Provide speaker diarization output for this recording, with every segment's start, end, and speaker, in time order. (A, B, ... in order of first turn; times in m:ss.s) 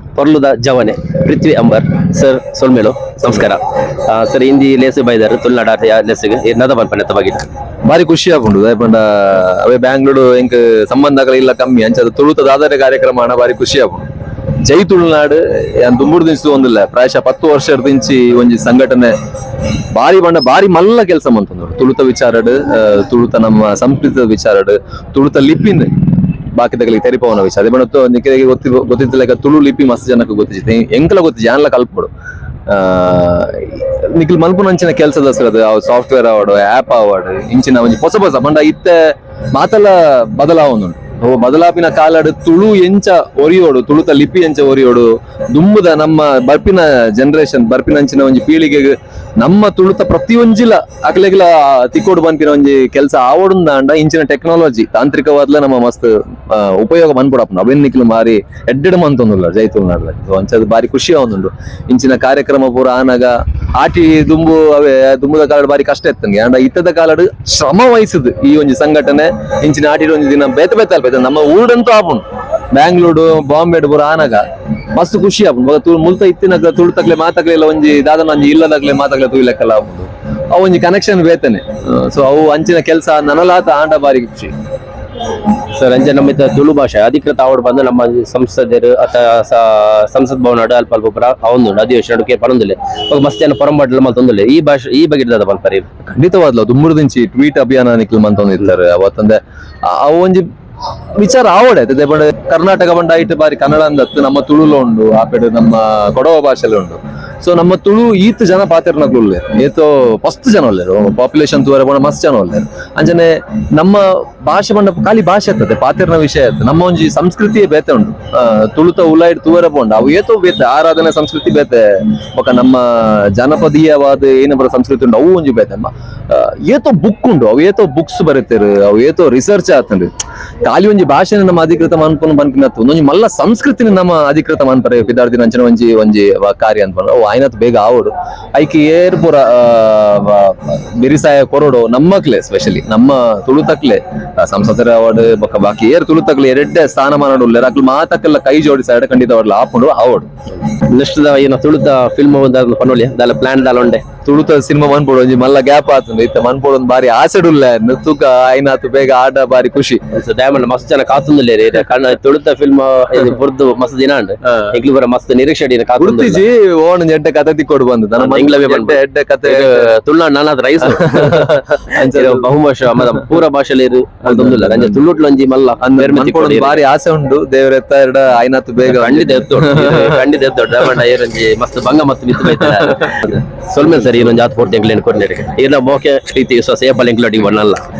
0:00.2-0:07.5 A
0:07.8-0:14.1 B
0:14.6-0:19.1 B
0:19.9-0:25.9 B
0:26.6-0:32.1 B
0:32.7-1:14.4 B
1:14.9-1:24.5 B
1:25.7-1:35.8 A
1:36.1-1:40.5 B
1:41.2-2:10.1 B
2:10.6-2:30.3 B
2:30.7-2:34.0 A
2:34.2-2:40.0 B
2:40.1-2:46.4 A
2:46.0-2:49.9 B
2:48.2-2:56.8 A
2:50.8-2:52.5 B
2:54.2-2:55.0 B
2:55.8-3:00.2 B
2:58.9-3:07.8 A
3:02.8-3:03.1 B